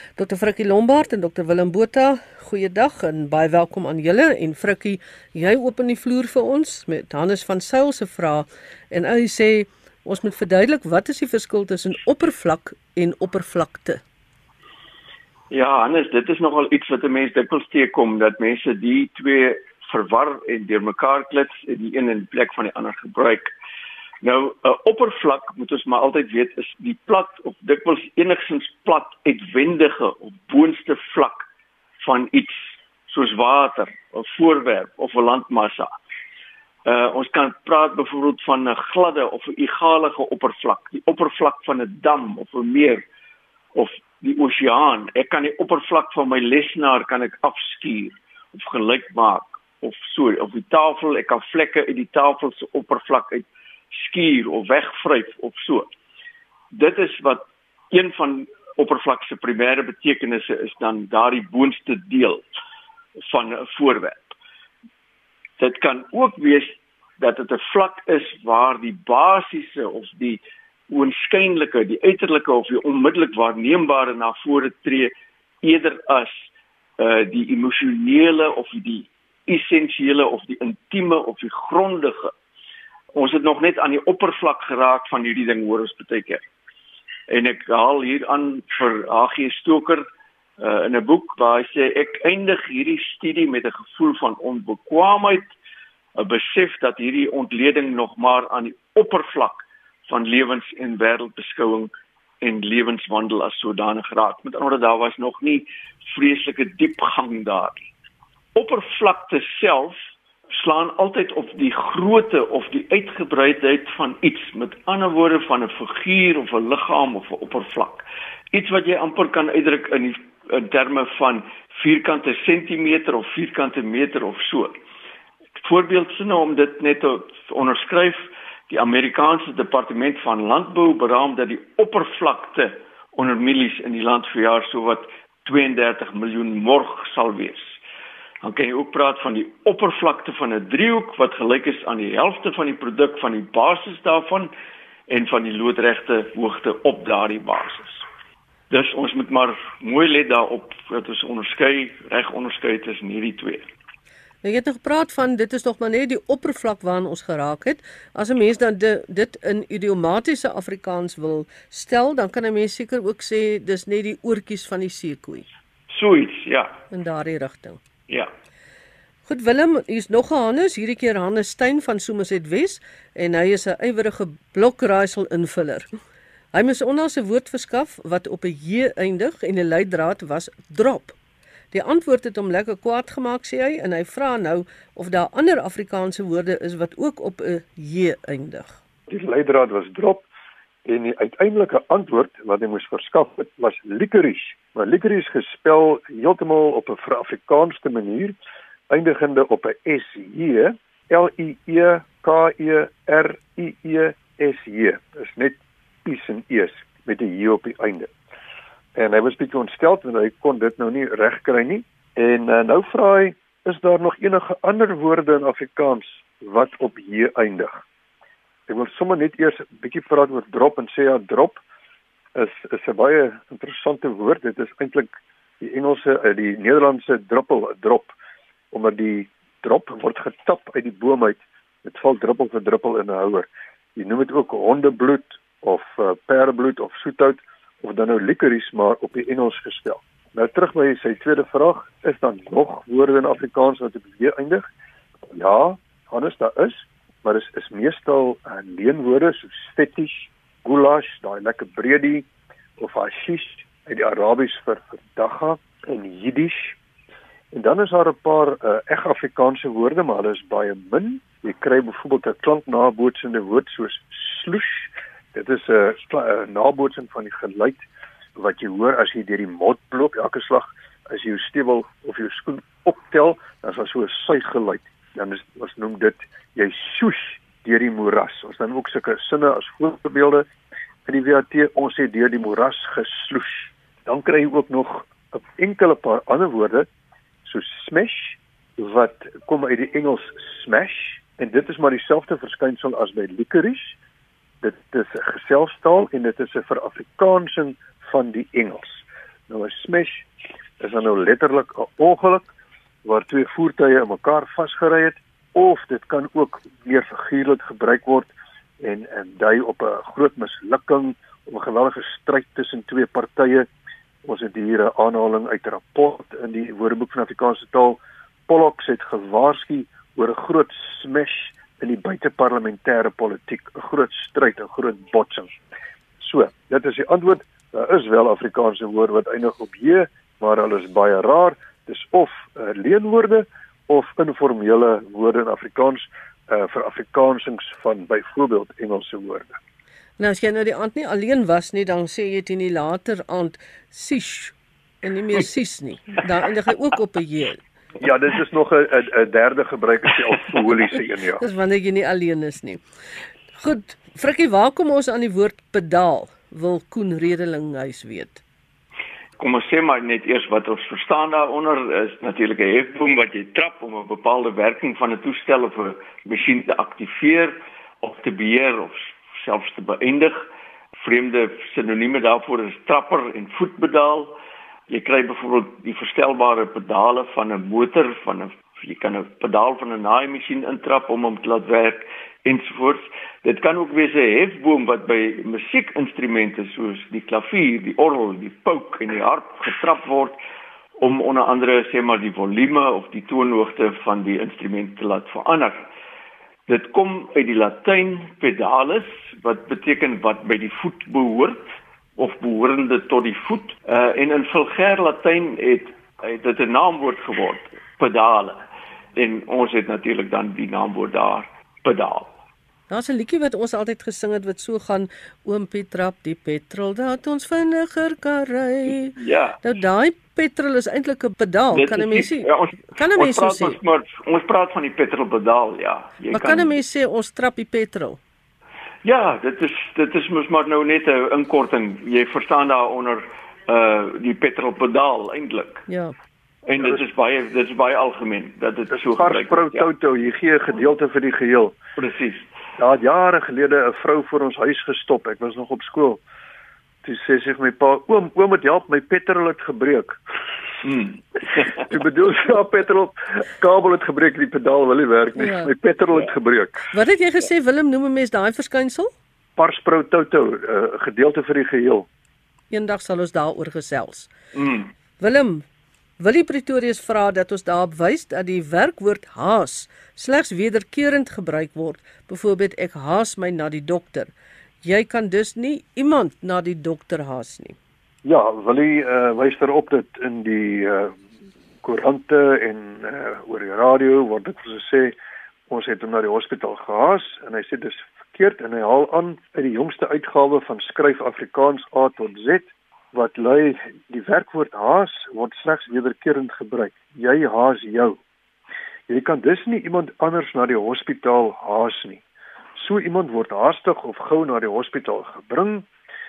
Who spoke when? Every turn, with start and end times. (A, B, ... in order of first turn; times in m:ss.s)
0:00.2-0:14.0 A
0:15.5-0:23.5 B
0:24.2-0:31.4 B
0:32.0-0:35.9 B
0:36.8-0:43.0 B
0:43.8-0:55.9 B
0:56.7-1:02.4 B
1:03.3-1:04.4 B
1:05.6-1:22.3 B
1:23.1-1:26.4 B
1:27.3-1:30.0 B
1:30.6-1:35.5 B
1:36.2-1:47.9 B
1:48.6-1:50.0 B
1:50.5-2:04.7 B
2:05.6-2:17.8 B
2:18.4-2:24.5 B
2:25.1-2:28.1 B
2:28.7-2:33.7 B
2:34.4-2:45.5 A
2:45.9-2:46.8 B
2:46.9-2:47.8 A
2:49.2-2:55.9 A
2:56.5-3:01.2 A
3:01.7-3:08.8 A
3:09.1-3:10.3 C
3:10.8-3:18.3 C
3:18.9-3:28.1 C
3:29.0-3:37.8 C
3:38.7-3:41.6 C
3:42.4-3:48.1 C
3:48.7-4:04.6 C
4:05.3-4:12.3 C
4:12.8-4:16.8 C
4:17.5-4:27.8 C
4:28.4-4:40.5 C
4:41.1-4:46.9 C
4:47.4-4:54.0 C
4:54.6-5:02.5 C
5:03.0-5:13.7 C
5:14.2-5:25.6 C
5:26.2-5:39.6 C
5:40.2-5:47.6 A
5:48.0-5:51.4 C
5:51.4-5:52.8 A
5:53.5-5:58.4 A
5:59.4-6:14.4 B
6:14.9-6:30.4 B
6:31.0-6:35.8 B
6:36.7-6:41.6 B
6:42.2-6:48.6 B
6:49.2-6:52.3 B
6:52.9-7:03.8 A
6:59.1-6:59.6 B
7:01.7-7:06.8 B
7:06.3-7:08.2 A
7:09.0-7:15.8 B
7:15.9-7:16.1 A
7:16.7-7:19.9 B
7:19.0-7:21.8 C
7:22.0-7:22.5 B
7:22.8-7:26.2 C
7:27.0-7:30.4 C
7:30.8-7:31.8 B
7:31.6-7:36.9 C
7:35.4-7:35.7 A
7:36.9-7:39.1 A
7:39.6-7:42.1 C
7:42.7-7:44.3 A
7:44.5-7:44.9 B
7:45.2-7:45.6 A
7:46.2-7:57.8 A
7:58.2-8:01.2 C
8:01.8-8:05.2 C
8:05.7-8:18.2 C
8:19.1-8:22.2 C
8:22.8-8:25.9 C